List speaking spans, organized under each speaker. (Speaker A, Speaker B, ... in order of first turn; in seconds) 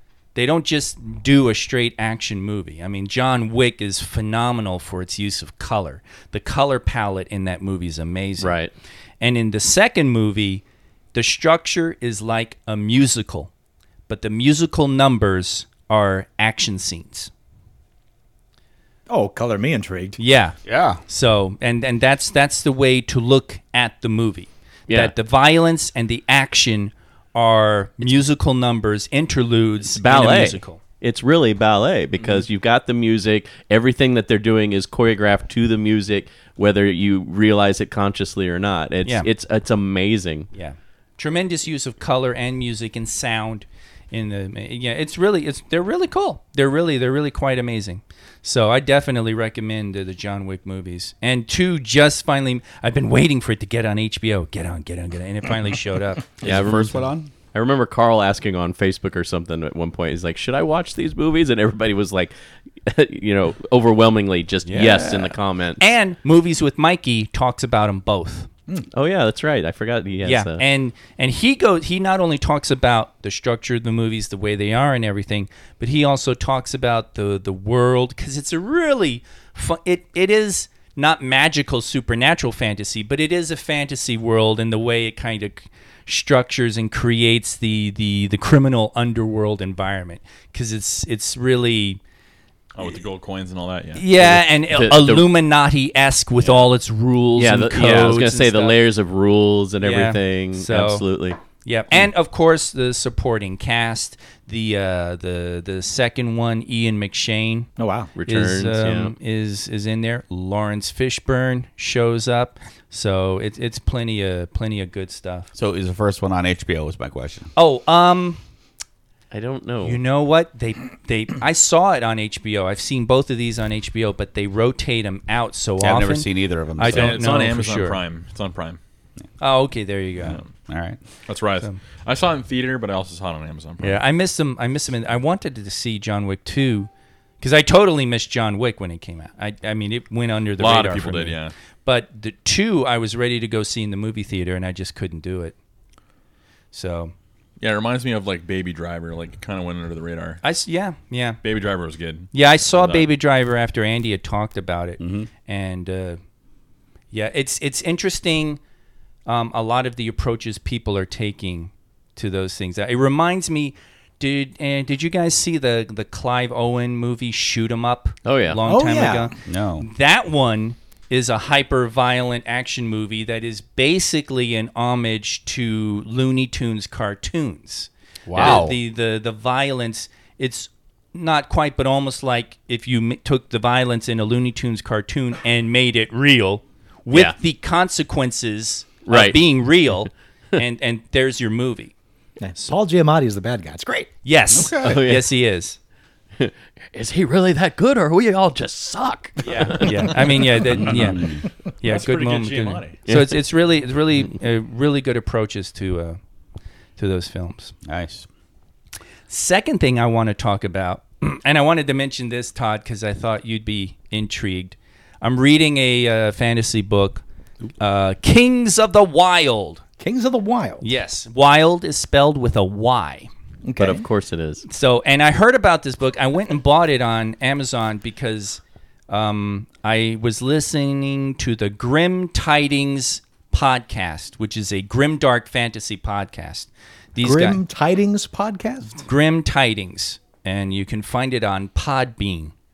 Speaker A: 0.3-8.5, 9.2-10.6, 11.1-13.5, 14.1-17.3, 20.2-20.6, 21.1-30.8, 40.5-56.3, 64.7-68.5, 70.2-92.0, 93.9-98.8, 99.8-101.0, 101.6-107.7, 108.2-115.5, 117.5-118.4, 119.8-128.0, 129.4-130.4, 133.8-136.9, 137.4-145.5, 146.7-147.1, 150.4-151.4, 152.3-156.2, 157.1-158.6, 159.2-191.9, 194.2-195.8, 199.7-206.2, 207.0-207.7, 209.3-217.2, 217.8-219.8, 220.8-223.3, 224.7-237.6, 239.0-242.5
Speaker B: 8.4-8.7, 29.9-40.5, 56.4-62.3, 62.8-65.8, 68.9-70.6, 94.2-95.3, 97.4-101.4, 108.2-109.1, 119.3-120.0, 168.2-168.6, 178.3-178.7, 189.1-189.4, 194.8-195.3, 196.4-200.2, 203.1-203.4, 223.8-224.6
Speaker C: 19.1-20.2, 107.8-108.1, 168.7-169.3, 192.4-194.1, 220.0-220.8, 223.6-224.0, 237.2-239.0
Speaker D: 20.6-21.0, 56.4-57.3, 115.5-117.5, 125.8-127.3, 130.7-131.0, 155.0-155.3, 169.4-169.8, 178.3-178.8, 194.5-194.9, 200.7-201.5, 207.8-208.3
Speaker E: 92.7-94.1, 126.8-128.8, 130.2-130.5, 131.2-134.0, 140.6-141.5, 147.6-150.4, 151.4-153.1, 199.4-200.1, 201.8-203.0